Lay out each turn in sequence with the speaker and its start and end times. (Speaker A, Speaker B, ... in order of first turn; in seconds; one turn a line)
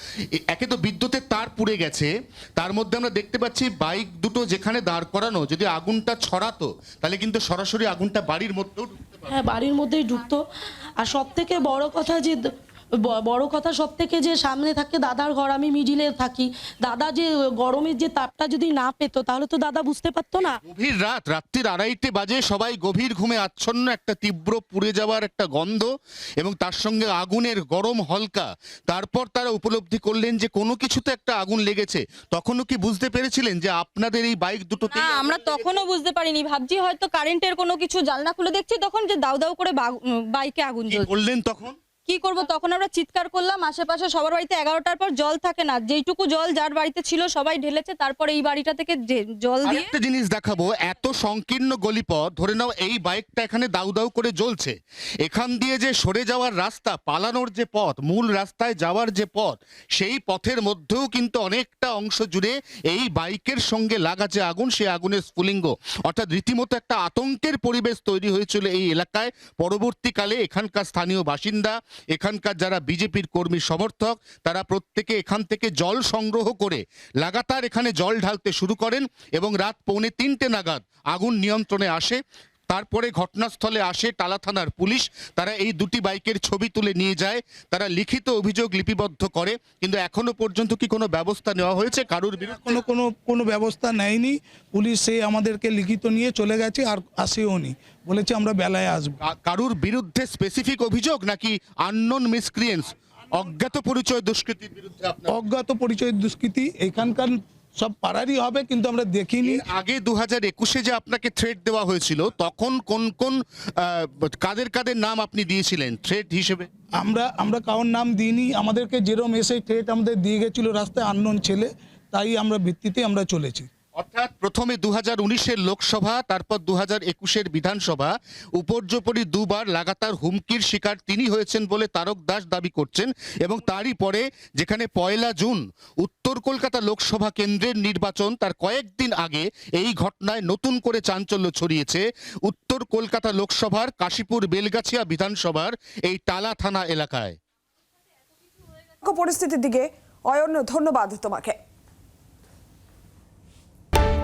Speaker A: 0.3-9.3
Speaker B: 9.3-10.4
Speaker B: 11.0-12.4
Speaker B: 13.1-20.6
Speaker A: 20.6-25.9
Speaker A: 26.4-35.9
Speaker C: 34.9-41.1
Speaker A: 40.9-41.8
Speaker C: 42.0-49.9
Speaker A: 49.6-92.8
Speaker D: 92.5-99.2
Speaker A: 99.2-105.4
Speaker D: 105.3-109.6
Speaker A: 109.4-116.7
Speaker D: 117.0-123.7
Speaker A: 124.0-147.4
Speaker E: 149.0-151.6